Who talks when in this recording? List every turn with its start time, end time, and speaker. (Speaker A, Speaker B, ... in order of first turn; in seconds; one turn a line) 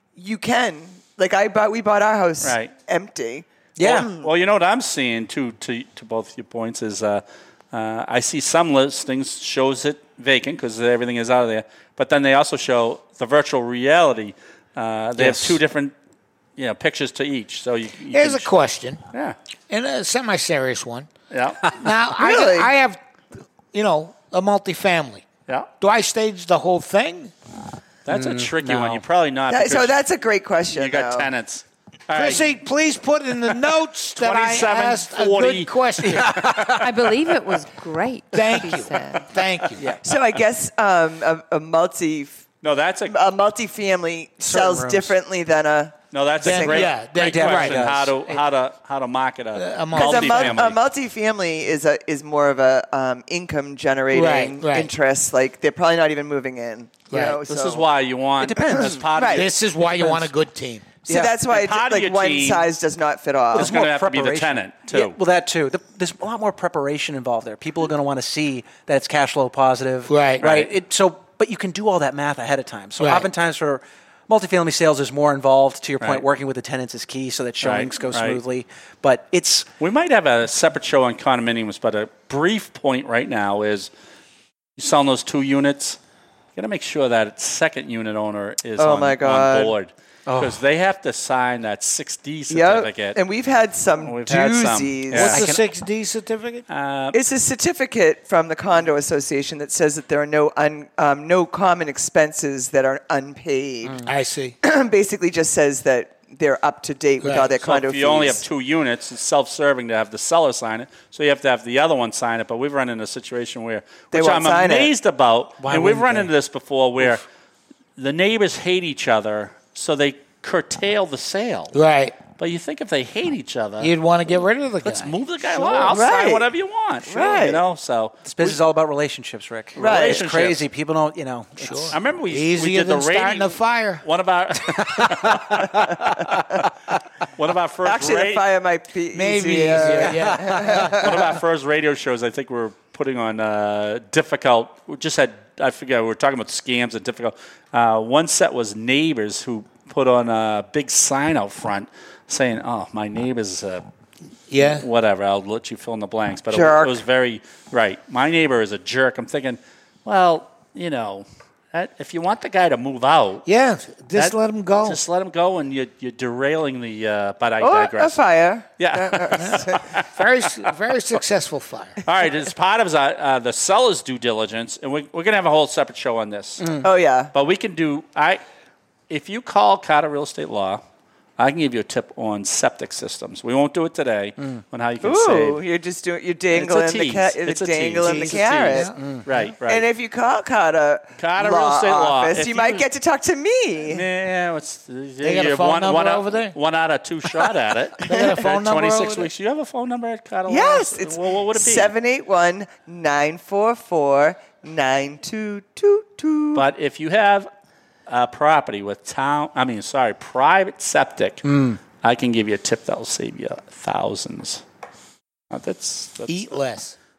Speaker A: 0.2-4.3
Speaker B: 2.4-2.7
Speaker C: 3.8-4.1
Speaker B: 3.8-15.9
Speaker C: 15.2-15.6
Speaker B: 16.6-18.5
Speaker D: 18.1-19.0
Speaker D: 19.7-21.1
Speaker B: 21.3-21.7
Speaker D: 21.7-23.0
Speaker A: 22.2-22.7
Speaker D: 23.7-25.2
Speaker D: 25.8-27.3
Speaker B: 28.1-30.0
Speaker C: 28.1-29.0
Speaker A: 29.5-31.3
Speaker B: 30.7-32.5
Speaker D: 32.1-36.3
Speaker B: 34.2-36.8
Speaker C: 36.0-37.1
Speaker E: 36.8-39.3
Speaker D: 38.3-39.9
Speaker C: 39.8-40.1
Speaker A: 40.0-42.4
Speaker B: 42.6-43.2
Speaker A: 43.1-46.0
Speaker C: 44.4-45.1
Speaker B: 46.1-50.8
Speaker D: 46.4-47.9
Speaker C: 46.7-48.4
Speaker D: 49.5-50.6
Speaker A: 49.9-57.9
Speaker D: 54.1-54.9
Speaker D: 57.1-57.4
Speaker B: 57.5-59.5
Speaker C: 58.4-59.1
Speaker A: 59.1-59.5
Speaker D: 59.3-60.9
Speaker C: 59.8-60.3
Speaker C: 61.1-61.3
Speaker A: 61.1-63.7
Speaker B: 61.5-62.7
Speaker B: 63.5-65.2
Speaker C: 63.5-79.7
Speaker D: 70.1-70.4
Speaker B: 70.4-70.7
Speaker D: 73.0-73.3
Speaker B: 76.0-76.2
Speaker B: 77.6-78.4
Speaker B: 79.8-83.9
Speaker B: 84.8-86.0
Speaker B: 86.5-93.2
Speaker A: 88.8-89.7
Speaker C: 90.3-90.6
Speaker A: 92.5-95.4
Speaker B: 94.0-95.4
Speaker D: 95.2-96.7
Speaker C: 95.2-95.7
Speaker B: 96.7-97.2
Speaker A: 97.1-104.1
Speaker D: 104.0-104.6
Speaker A: 104.6-108.4
Speaker D: 107.2-107.5
Speaker B: 107.4-117.2
Speaker A: 114.1-114.9
Speaker C: 115.6-116.3
Speaker B: 118.0-121.7
Speaker D: 121.7-122.2
Speaker B: 122.4-123.9
Speaker D: 123.8-125.9
Speaker B: 124.8-128.6
Speaker A: 125.9-126.5
Speaker A: 127.1-127.6
Speaker C: 128.3-131.9
Speaker B: 129.8-130.6
Speaker A: 129.8-130.3
Speaker D: 131.6-134.0
Speaker B: 131.9-136.4
Speaker C: 134.8-136.7
Speaker B: 137.4-138.4
Speaker A: 137.8-141.4
Speaker D: 139.1-141.0
Speaker C: 139.8-141.0
Speaker B: 141.0-153.8
Speaker D: 154.5-154.8
Speaker B: 154.7-163.4
Speaker A: 156.5-157.0
Speaker D: 163.5-165.0
Speaker B: 164.2-168.2
Speaker A: 167.6-169.9
Speaker B: 168.8-170.1
Speaker D: 169.4-172.0
Speaker B: 172.0-178.4
Speaker C: 176.6-176.9
Speaker A: 176.8-177.3
Speaker B: 179.1-180.8
Speaker B: 181.4-185.6
Speaker A: 185.0-188.9
Speaker B: 186.5-189.8
Speaker D: 188.0-189.0
Speaker C: 189.0-189.2
Speaker A: 189.6-194.0
Speaker B: 191.2-192.9
Speaker B: 193.9-201.9
Speaker D: 195.2-196.6
Speaker D: 198.0-199.3
Speaker A: 198.1-198.4
Speaker A: 200.5-206.7
Speaker B: 206.6-207.5
Speaker B: 208.1-214.6
Speaker C: 211.5-211.8
Speaker B: 215.5-216.4
Speaker D: 216.3-216.9